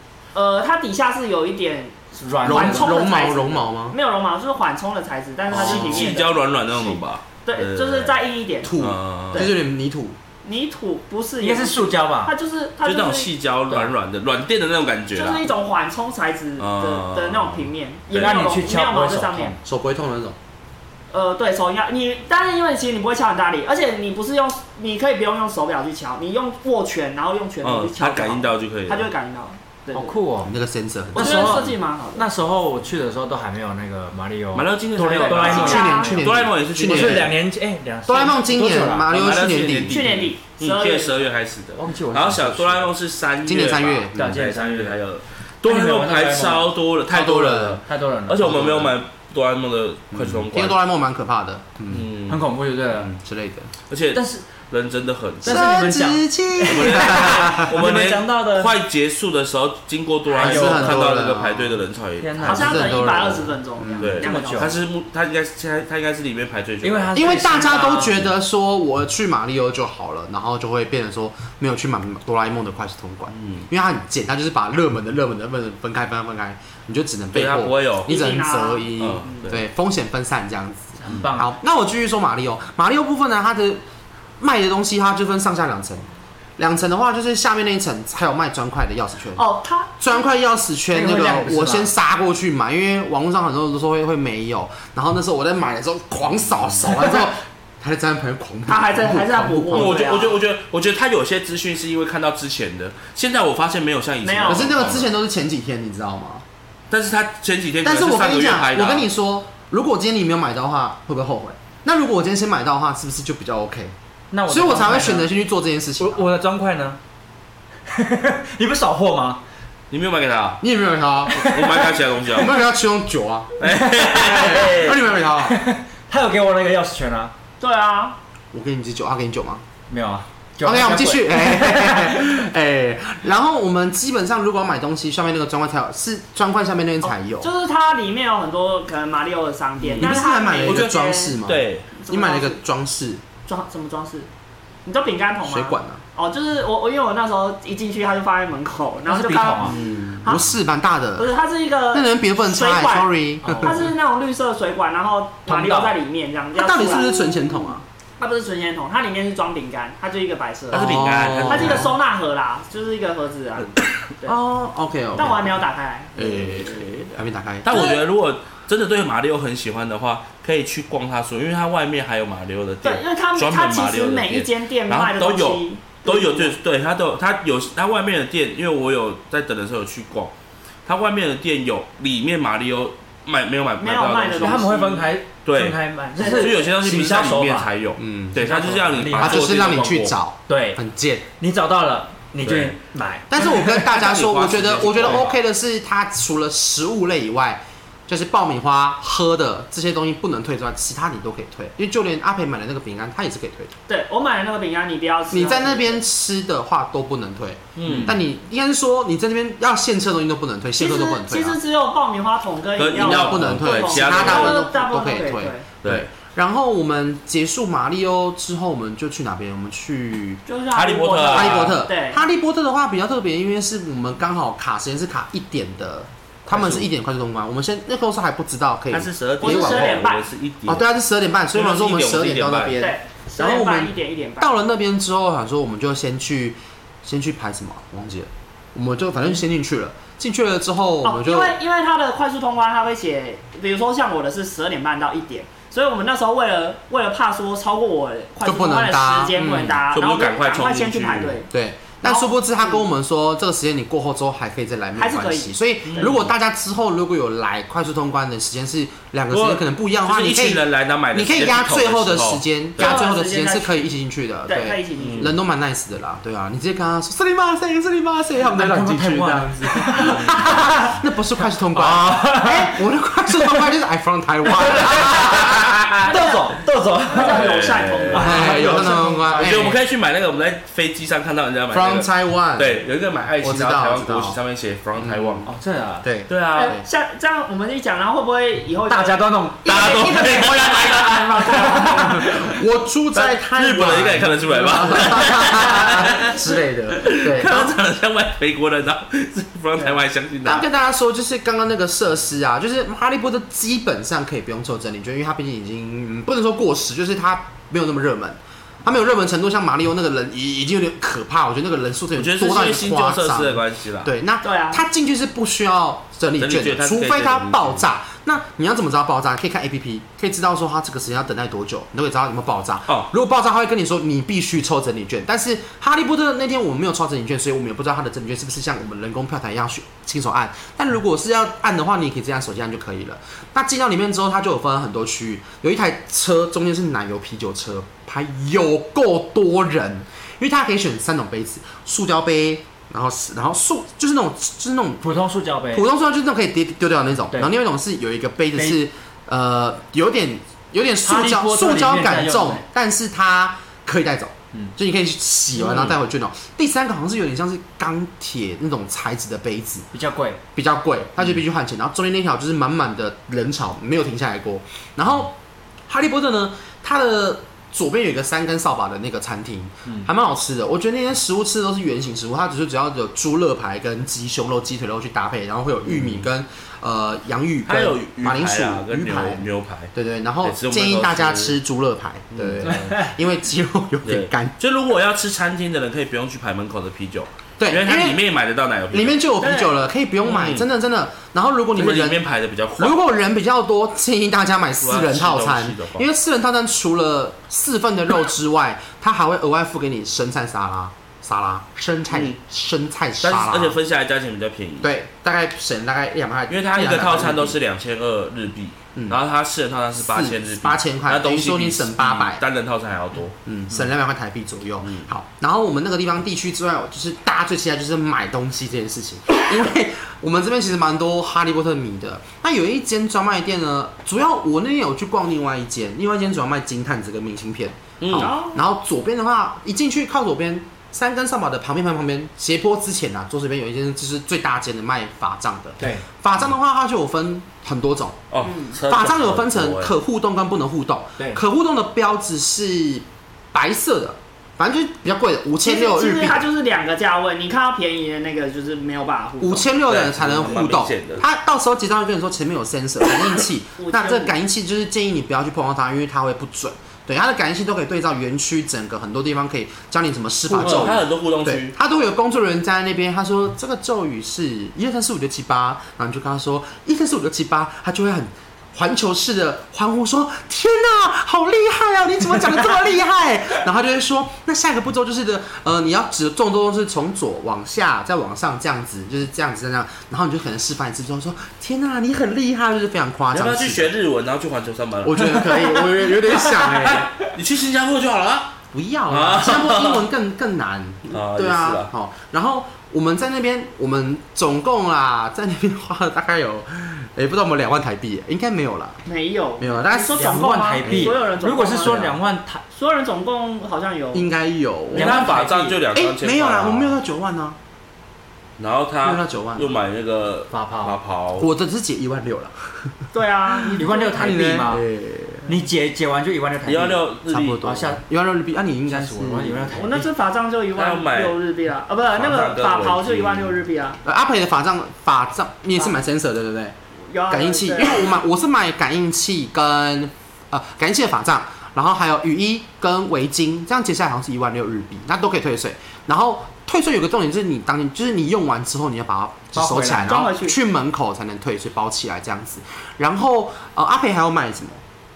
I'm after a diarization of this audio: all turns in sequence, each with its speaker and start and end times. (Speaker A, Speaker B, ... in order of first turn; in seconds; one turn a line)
Speaker A: 0.3-8.8
Speaker B: 2.1-3.1
Speaker C: 2.4-4.0
Speaker D: 5.5-8.2
Speaker B: 5.6-6.1
Speaker C: 8.6-10.2
Speaker D: 8.8-9.5
Speaker A: 10.4-13.3
Speaker B: 11.4-12.3
Speaker D: 12.8-15.5
Speaker A: 15.1-19.6
Speaker D: 16.6-18.4
Speaker B: 18.1-19.6
Speaker C: 19.6-20.4
Speaker A: 21.1-30.2
Speaker D: 27.6-29.1
Speaker B: 29.9-30.5
Speaker C: 30.4-31.7
Speaker B: 31.1-39.1
Speaker A: 31.1-32.3
Speaker D: 34.5-37.3
Speaker A: 35.1-36.1
Speaker C: 35.5-37.3
Speaker C: 38.0-40.2
Speaker D: 39.0-50.8
Speaker A: 39.9-41.2
Speaker B: 41.8-42.9
Speaker C: 43.5-44.3
Speaker B: 44.1-44.9
Speaker B: 45.6-46.7
Speaker C: 47.1-47.8
Speaker B: 47.8-48.9
Speaker C: 48.5-48.8
Speaker C: 50.1-52.1
Speaker D: 51.9-52.4
Speaker B: 52.3-53.1
Speaker C: 52.9-53.7
Speaker D: 53.9-55.7
Speaker B: 54.1-54.4
Speaker B: 55.4-58.7
Speaker C: 55.4-57.7
Speaker D: 56.6-62.7
Speaker B: 60.3-61.1
Speaker C: 60.4-61.8
Speaker B: 62.2-62.9
Speaker C: 62.4-64.1
Speaker A: 62.4-64.8
Speaker D: 64.0-67.2
Speaker B: 64.0-64.8
Speaker B: 66.8-68.2
Speaker C: 67.1-83.8
Speaker D: 73.3-73.7
Speaker D: 77.3-78.1
Speaker A: 78.1-78.9
Speaker D: 79.0-79.6
Speaker B: 81.0-81.5
Speaker C: 84.4-86.1
Speaker C: 86.6-89.4
Speaker A: 89.3-90.2
Speaker C: 90.0-100.1
Speaker B: 90.9-91.9
Speaker A: 98.7-100.4
Speaker D: 99.7-105.1
Speaker A: 104.2-104.7
Speaker C: 104.5-106.4
Speaker D: 106.9-109.1
Speaker C: 107.8-113.9
Speaker B: 114.3-115.3
Speaker C: 114.5-116.2
Speaker B: 116.0-117.0
Speaker B: 117.9-119.4
Speaker D: 119.9-120.6
Speaker C: 120.6-121.5
Speaker B: 121.3-122.0
Speaker D: 121.3-122.5
Speaker C: 122.3-123.5
Speaker D: 123.6-125.0
Speaker B: 123.6-127.3
Speaker C: 124.3-125.6
Speaker A: 127.6-128.2
Speaker C: 128.5-129.6
Speaker B: 129.9-132.3
Speaker C: 130.6-137.5
Speaker A: 137.0-141.3
Speaker D: 139.8-141.9
Speaker C: 140.0-143.2
Speaker A: 141.9-142.6
Speaker A: 143.5-144.3
Speaker A: 144.8-150.5
Speaker C: 145.4-146.0
Speaker B: 149.1-149.8
Speaker C: 149.7-151.3
Speaker A: 151.2-164.4
Speaker C: 151.9-153.8
Speaker B: 153.4-153.9
Speaker B: 155.4-155.9
Speaker C: 156.5-157.8
Speaker D: 160.7-161.9
Speaker C: 160.7-161.9
Speaker C: 164.2-165.6
Speaker A: 165.1-167.0
Speaker C: 166.2-167.9
Speaker D: 167.6-180.3
Speaker A: 167.7-168.0
Speaker A: 172.8-176.6
Speaker D: 180.8-184.7
Speaker A: 183.8-185.1
Speaker B: 184.4-187.7
Speaker D: 185.4-190.1
Speaker A: 186.2-186.6
Speaker C: 188.0-188.4
Speaker B: 188.4-189.7
Speaker C: 189.2-191.2
Speaker B: 190.5-190.8
Speaker B: 191.4-193.8
Speaker D: 192.4-192.8
Speaker C: 193.3-203.7
Speaker D: 193.7-195.3
Speaker A: 203.9-206.0
Speaker C: 205.3-211.6
Speaker D: 207.7-208.2
Speaker B: 207.9-208.1
Speaker A: 210.8-215.6
Speaker D: 212.8-214.6
Speaker C: 212.9-220.4
Speaker A: 220.4-222.2
Speaker D: 220.7-221.8
Speaker C: 221.3-230.0
Speaker D: 226.5-226.9
Speaker D: 228.9-230.8
Speaker A: 229.4-230.2
Speaker C: 230.7-241.5
Speaker D: 231.5-232.8
Speaker A: 232.8-234.5
Speaker A: 241.0-251.5
Speaker C: 248.4-249.8
Speaker D: 249.4-251.4
Speaker C: 251.5-275.7
Speaker A: 252.0-252.8
Speaker A: 255.0-256.1
Speaker D: 255.9-256.3
Speaker D: 259.3-263.0
Speaker A: 262.8-263.8
Speaker A: 264.5-265.3
Speaker D: 265.0-265.3
Speaker B: 268.4-270.9
Speaker D: 270.1-270.3
Speaker B: 271.7-272.8
Speaker B: 273.4-273.6
Speaker B: 274.5-277.5
Speaker A: 276.0-276.5
Speaker A: 277.1-278.6
Speaker D: 277.2-278.6
Speaker B: 278.1-279.8
Speaker C: 278.1-279.8
Speaker D: 279.3-285.5
Speaker C: 281.7-282.8
Speaker C: 283.4-284.4
Speaker C: 285.0-285.5
Speaker B: 285.4-286.1
Speaker C: 286.0-286.9
Speaker D: 286.3-286.8
Speaker A: 286.5-290.8
Speaker B: 288.9-292.5
Speaker D: 289.6-292.2
Speaker A: 291.4-292.1
Speaker C: 291.9-297.8
Speaker D: 293.1-300.6
Speaker C: 300.4-345.0
Speaker D: 312.1-314.1
Speaker A: 314.4-314.8
Speaker D: 316.4-317.8
Speaker B: 345.0-345.9
Speaker C: 345.7-359.9
Speaker B: 351.0-352.6
Speaker B: 355.6-355.9
Speaker B: 359.9-360.4
Speaker C: 360.6-365.3
Speaker C: 365.9-384.6
Speaker D: 375.9-376.2
Speaker D: 377.6-379.9
Speaker D: 380.4-381.5
Speaker D: 382.3-382.9
Speaker B: 382.6-383.1
Speaker D: 384.0-389.2
Speaker C: 387.6-388.2
Speaker C: 388.9-392.2
Speaker A: 389.4-389.7
Speaker D: 390.2-390.6
Speaker D: 391.7-393.0
Speaker C: 392.8-403.8
Speaker D: 394.8-396.0
Speaker D: 402.1-402.4
Speaker D: 403.2-404.9
Speaker C: 404.8-407.6
Speaker D: 406.5-413.3
Speaker C: 410.0-412.4
Speaker C: 413.4-438.3
Speaker D: 428.0-428.3
Speaker A: 428.1-428.6
Speaker B: 435.8-436.0
Speaker D: 438.3-439.9
Speaker A: 438.4-438.7
Speaker C: 438.8-446.4
Speaker A: 445.6-449.7
Speaker C: 449.4-483.9
Speaker D: 449.9-451.2
Speaker A: 453.8-454.3
Speaker D: 460.5-461.7
Speaker D: 483.3-488.6
Speaker C: 485.0-487.1
Speaker C: 488.7-499.0
Speaker D: 489.1-490.0
Speaker D: 491.1-491.9
Speaker A: 499.1-502.0
Speaker C: 499.6-501.2
Speaker B: 500.1-502.6
Speaker C: 501.8-502.2
Speaker A: 502.7-504.3
Speaker C: 504.1-505.3
Speaker B: 504.9-505.8
Speaker D: 504.9-507.0
Speaker C: 505.9-507.6
Speaker D: 508.6-511.5
Speaker C: 509.0-509.7
Speaker B: 510.5-511.0
Speaker C: 511.4-512.9
Speaker A: 513.1-514.4
Speaker C: 513.5-515.6
Speaker B: 513.8-514.8
Speaker B: 515.5-518.0
Speaker D: 516.6-517.6
Speaker C: 517.3-519.8
Speaker B: 518.9-520.1
Speaker A: 519.8-524.0
Speaker D: 520.7-521.3
Speaker D: 522.1-523.6
Speaker C: 524.0-526.7
Speaker A: 527.1-528.1
Speaker C: 527.3-544.8
Speaker B: 539.5-540.2
Speaker A: 540.0-540.5